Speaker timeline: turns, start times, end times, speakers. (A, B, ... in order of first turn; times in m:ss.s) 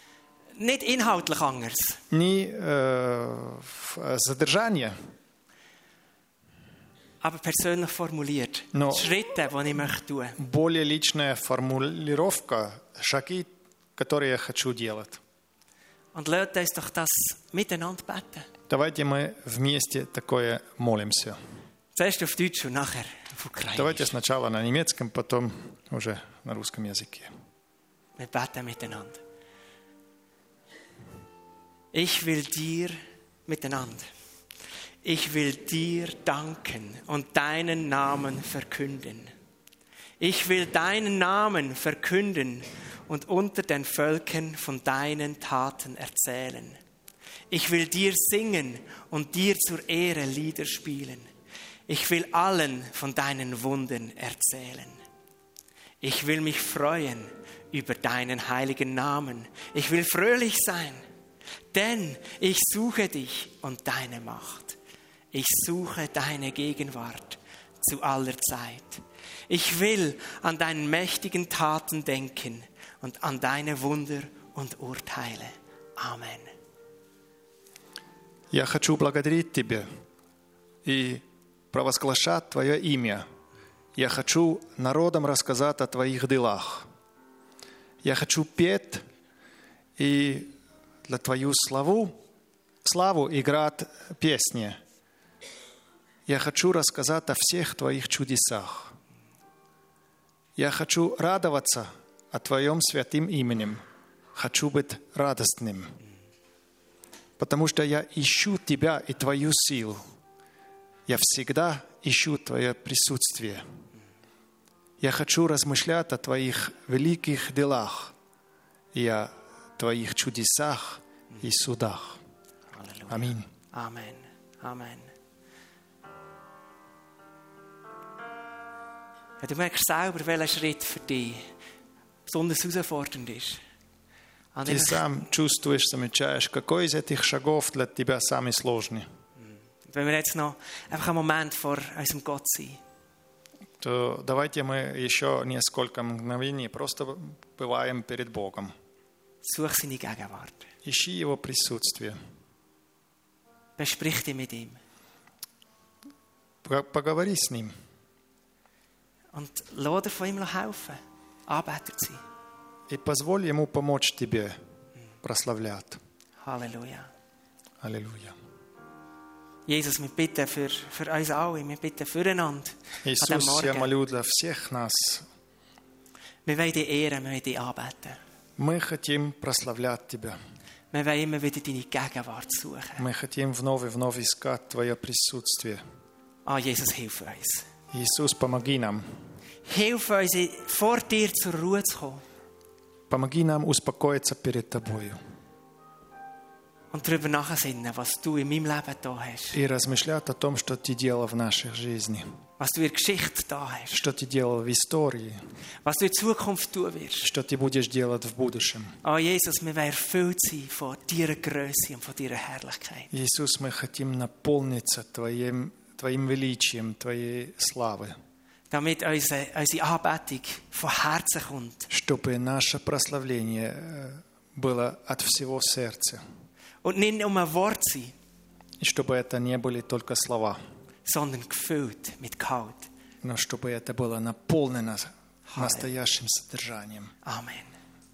0:00.5-0:02.0 A
0:02.1-0:04.9 B
0:07.2-0:10.4 A
0:08.7-0:09.1 B
0:10.4-0:15.2 B
0:16.1-0:18.5 A
0:18.7-0:21.4 B
0:21.9-0:24.1 A
0:23.7-0:27.3 B
0:28.2-0:29.2 A
0:31.9-0:34.1 A
0:35.0-0:39.3 A
0:40.2-0:46.8 A
0:47.5-0:51.3 A
0:51.9-0:55.0 A
0:56.0-1:01.0 A
1:01.7-1:04.8 A
1:05.3-1:16.5 A
1:18.5-1:19.9 B
1:20.8-1:23.3 B
1:24.0-1:26.9 B
1:28.0-1:29.0 B
1:30.0-1:30.5 B
1:31.1-1:32.1 B
1:32.8-1:34.8 B
1:36.3-1:38.9 B
1:40.6-1:43.8 B
1:44.4-1:46.0 B
1:47.4-1:50.0 B
1:51.1-1:53.6 B
1:55.0-1:58.1 B
1:58.9-2:02.2 B
2:02.7-2:05.1 A
2:03.1-2:03.5 B
2:09.4-2:11.4 A
2:12.3-2:13.6 A
2:14.5-2:15.0 A
2:14.6-2:19.0 B
2:19.8-2:22.8 A
2:23.8-2:28.7 B
2:29.4-2:30.7 A
2:30.8-2:32.2 B
2:33.8-2:34.8 A
2:36.6-2:37.7 B
2:39.3-2:42.2 A
2:42.9-2:44.6 B
2:45.2-2:46.0 B
2:46.4-2:47.1 A
2:47.8-2:48.4 B
2:49.7-2:53.9 A
2:53.0-2:55.3 B
2:56.4-2:58.2 A
2:58.6-3:00.4 B
3:00.9-3:03.0 A
3:03.0-3:05.8 B
3:06.4-3:07.6 A
3:07.9-3:09.0 B
3:09.6-3:12.2 A
3:13.1-3:15.2 B
3:16.9-3:19.6 A
3:19.5-3:22.2 B
3:22.6-3:23.9 A
3:23.9-3:25.4 B
3:25.8-3:27.3 A
3:27.2-3:29.0 B
3:29.0-3:33.1 A
3:33.1-3:38.2 B
3:38.7-3:41.9 A
3:41.9-3:46.2 B
3:46.8-3:48.1 A
3:48.8-3:50.6 B
3:51.0-3:52.9 A
3:53.2-3:57.1 B
3:55.5-3:55.9 A
3:57.2-3:57.7 A